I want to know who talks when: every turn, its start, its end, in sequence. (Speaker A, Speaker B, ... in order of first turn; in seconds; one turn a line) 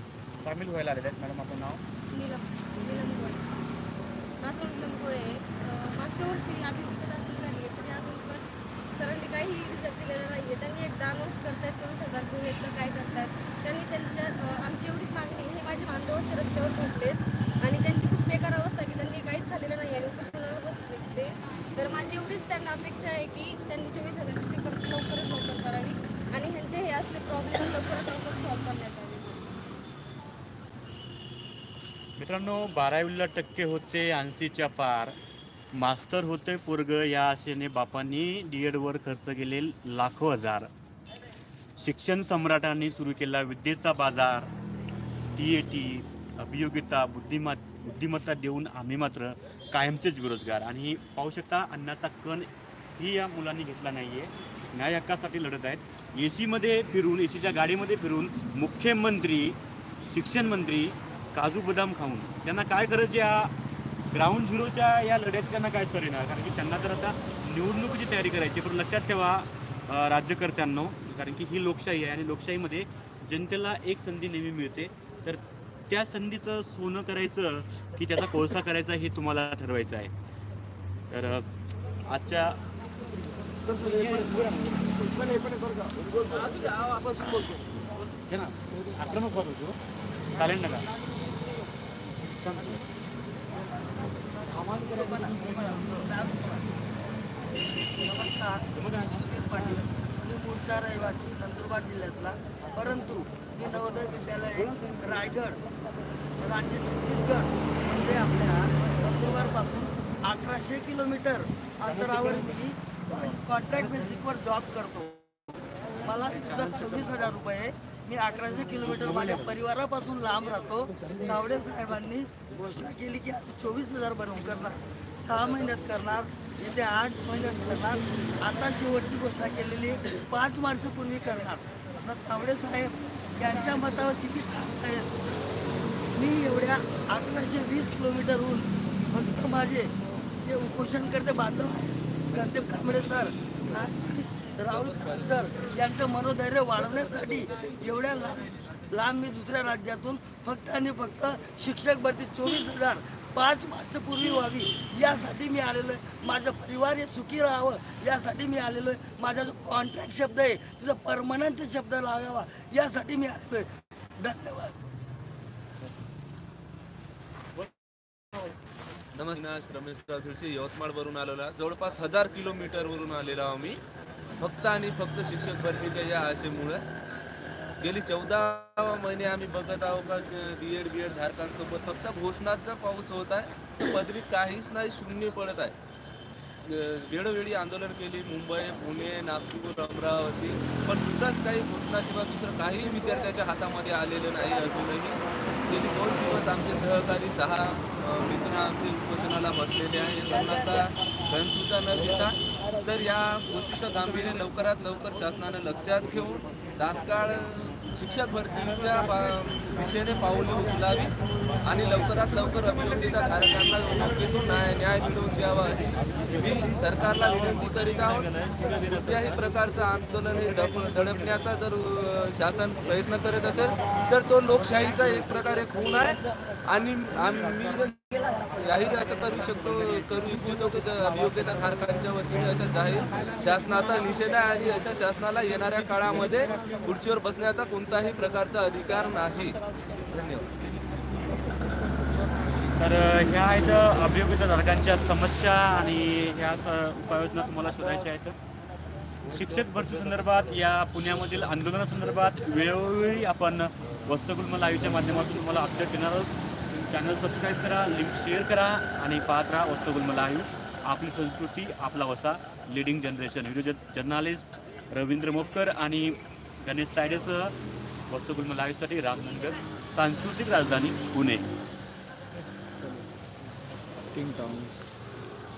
Speaker A: 0.3-1.8
Speaker B: 2.1-3.4
Speaker B: 4.4-8.4
Speaker B: 8.9-29.4
Speaker A: 32.2-35.1
Speaker A: 35.8-40.7
Speaker A: 41.8-44.5
Speaker A: 45.4-52.5
Speaker A: 53.0-59.6
Speaker A: 60.1-63.5
Speaker A: 64.1-80.1
Speaker A: 81.1-81.5
Speaker A: 82.1-82.6
Speaker A: 88.0-89.8
Speaker A: 90.3-90.8
Speaker A: 92.2-92.8
Speaker A: 94.6-96.1
Speaker C: 96.0-96.6
Speaker C: 98.0-98.6
Speaker A: 98.7-99.3
Speaker C: 99.2-105.6
Speaker C: 106.4-115.2
Speaker C: 116.0-135.1
Speaker A: 116.5-117.3
Speaker C: 136.1-139.9
Speaker C: 140.4-164.7
Speaker D: 169.1-173.8
Speaker D: 174.4-176.8
Speaker D: 177.8-185.7
Speaker D: 186.6-228.0
Speaker A: 216.1-216.4
Speaker A: 217.1-219.3
Speaker A: 220.4-221.2
Speaker D: 228.5-240.5
Speaker A: 242.8-248.3
Speaker A: 249.3-267.5
Speaker D: 249.3-250.2
Speaker A: 268.1-271.4